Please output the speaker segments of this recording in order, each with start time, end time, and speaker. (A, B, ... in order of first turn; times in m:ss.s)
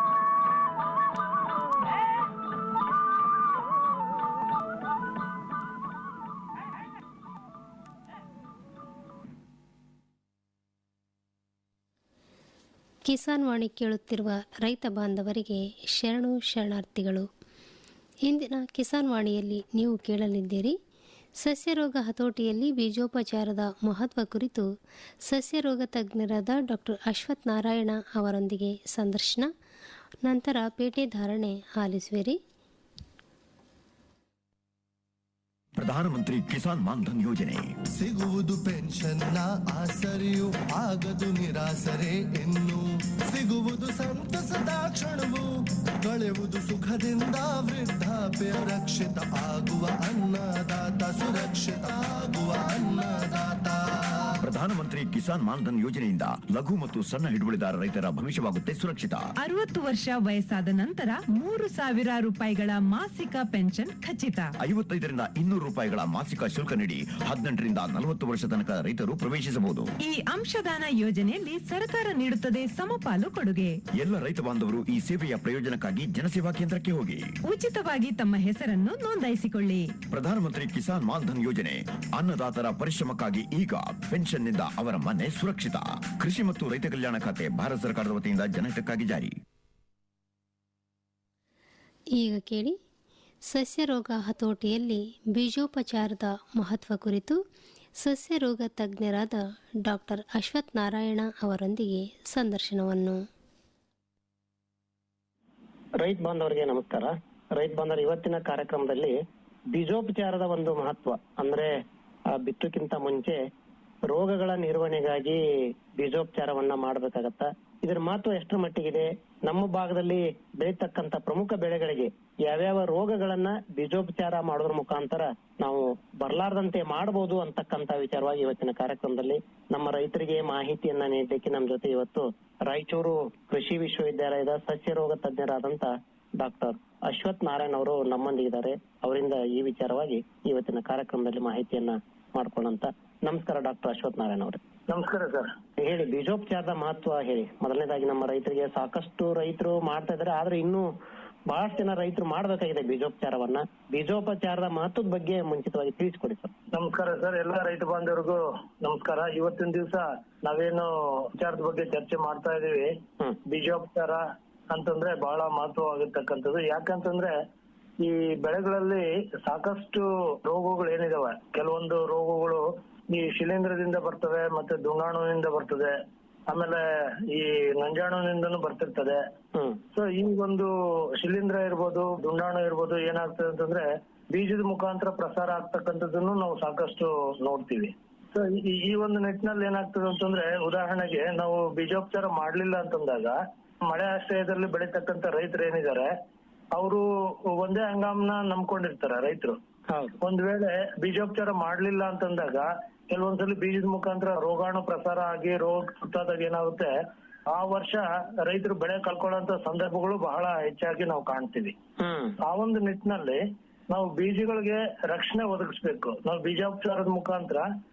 0:13.1-0:17.3 A
0:18.3-0:20.8 A
0:21.4-0:24.6 A
0:25.3-0:29.5 A
0:30.2-0:32.4 A
0:35.8-0:37.7 B
0:37.9-0:45.5 C
0:46.0-0:53.8 C
0:54.4-0:59.3 B
0:59.4-1:04.5 D
1:04.6-1:09.9 B
1:10.0-1:13.8 D
1:14.0-1:17.3 B
1:17.4-1:20.0 D
1:20.1-1:29.3 B
1:32.2-1:32.8 A
1:33.5-1:37.4 A
1:38.0-1:43.2 A
1:46.0-1:49.2 E
1:49.7-1:51.7 E
1:52.3-1:53.4 E
1:54.0-1:55.4 E
1:55.9-2:24.6 E
2:24.9-2:25.5 F
2:25.8-2:30.9 E
2:31.5-2:36.5 E
2:36.7-2:42.9 F
2:43.4-2:47.3 F
2:48.0-2:55.9 F
2:56.5-2:59.2 F
2:59.9-3:16.1 F
3:16.7-3:19.6 F
3:19.9-3:20.2 E
3:20.2-3:26.9 F
3:27.5-3:31.7 F
3:32.0-3:32.3 E
3:32.4-3:37.6 F